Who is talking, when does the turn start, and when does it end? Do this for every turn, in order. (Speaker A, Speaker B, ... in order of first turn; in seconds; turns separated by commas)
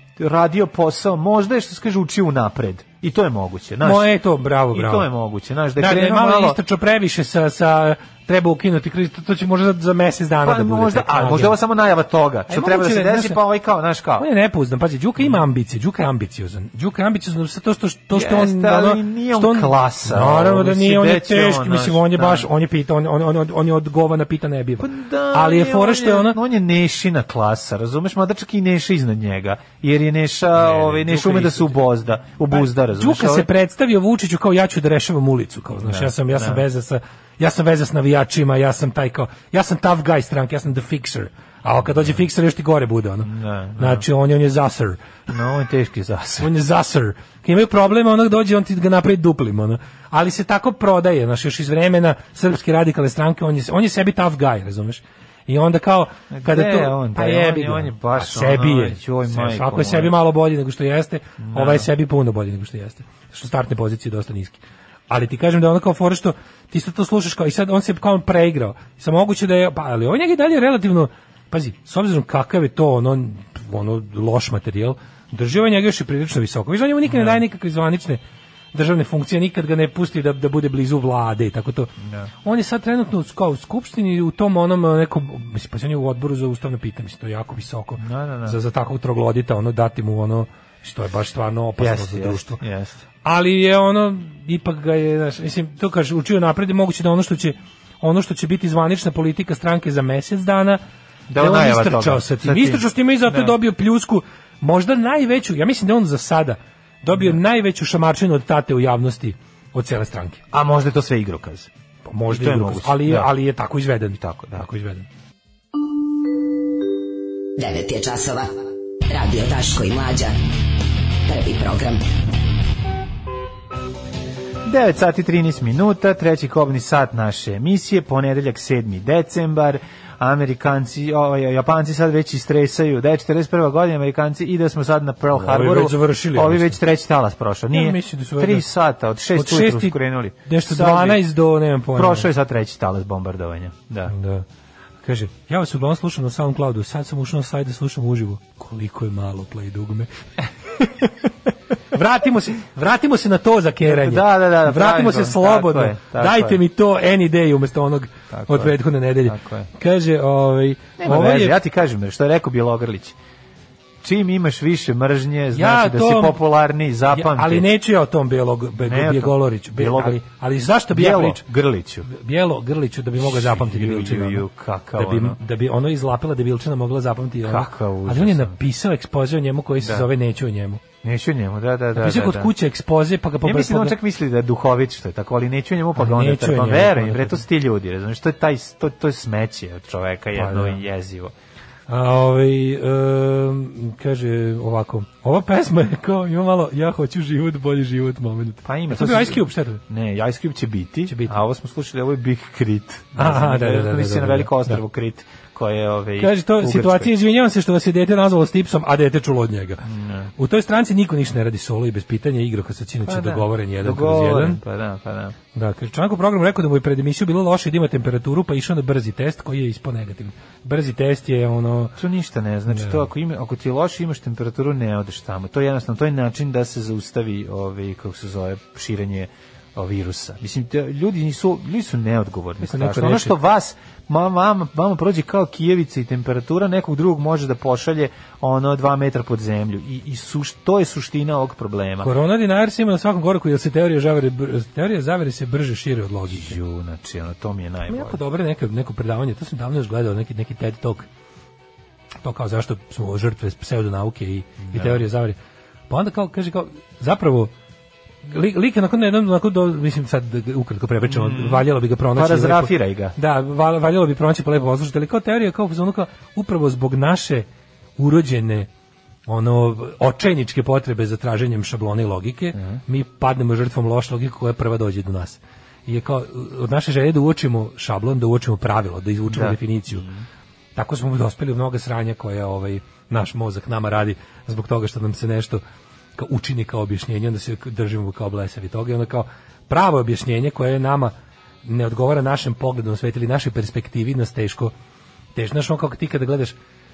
Speaker A: 0.2-4.1, Speaker B: 3.8-5.1, Speaker A: 4.7-6.6, Speaker B: 5.8-11.6, Speaker A: 10.4-14.3, Speaker B: 12.5-13.4, Speaker B: 14.2-26.4, Speaker A: 18.1-22.5, Speaker A: 24.8-33.5, Speaker B: 30.6-31.8, Speaker B: 32.5-45.1, Speaker A: 35.8-36.6, Speaker A: 43.2-44.0, Speaker A: 45.3-46.5, Speaker B: 46.4-78.2, Speaker A: 56.3-60.1, Speaker A: 61.4-61.9, Speaker A: 77.1-77.4, Speaker B: 78.7-81.9, Speaker A: 82.0-82.3, Speaker B: 82.4-92.6, Speaker A: 88.0-88.6, Speaker A: 91.8-93.0, Speaker B: 93.2-100.8, Speaker A: 101.3-103.5, Speaker B: 101.4-110.4, Speaker A: 110.5-111.7, Speaker B: 112.0-115.1, Speaker A: 112.3-113.3, Speaker A: 114.1-114.7, Speaker C: 117.6-118.5, Speaker C: 119.1-120.3, Speaker C: 121.3-122.0, Speaker A: 124.7-141.3, Speaker B: 135.3-136.8, Speaker B: 137.7-138.7, Speaker B: 139.3-142.3, Speaker A: 141.9-144.1, Speaker B: 144.1-144.5, Speaker B: 145.0-150.1, Speaker B: 150.8-151.1, Speaker B: 151.9-161.6, Speaker A: 153.8-156.6, Speaker A: 158.3-159.7, Speaker A: 161.0-163.2, Speaker A: 164.0-167.7, Speaker B: 165.5-166.4, Speaker B: 167.1-171.4, Speaker A: 168.8-170.2, Speaker A: 170.9-172.1, Speaker B: 172.1-180.8, Speaker A: 173.2-175.4, Speaker A: 177.5-178.6, Speaker A: 181.0-182.5, Speaker B: 182.0-184.0, Speaker A: 183.4-191.3, Speaker B: 186.0-187.4, Speaker B: 190.3-190.8, Speaker B: 191.9-199.8, Speaker A: 198.7-207.1, Speaker B: 201.1-201.3, Speaker B: 203.2-204.8, Speaker B: 206.2-209.8, Speaker A: 209.8-210.3, Speaker B: 210.4-214.6, Speaker A: 213.1-215.3, Speaker B: 215.5-222.0, Speaker A: 222.0-242.1, Speaker B: 222.7-223.0, Speaker B: 232.6-233.4, Speaker B: 242.0-246.6, Speaker A: 246.3-248.2, Speaker B: 247.9-251.1, Speaker B: 252.2-255.4, Speaker A: 254.6-255.0, Speaker B: 255.9-257.5, Speaker B: 258.3-267.5, Speaker A: 261.1-263.2, Speaker B: 268.0-268.7, Speaker B: 269.3-280.1, Speaker A: 279.3-280.2, Speaker B: 280.8-285.6, Speaker B: 286.2-291.1, Speaker B: 291.6-294.7, Speaker B: 295.4-296.6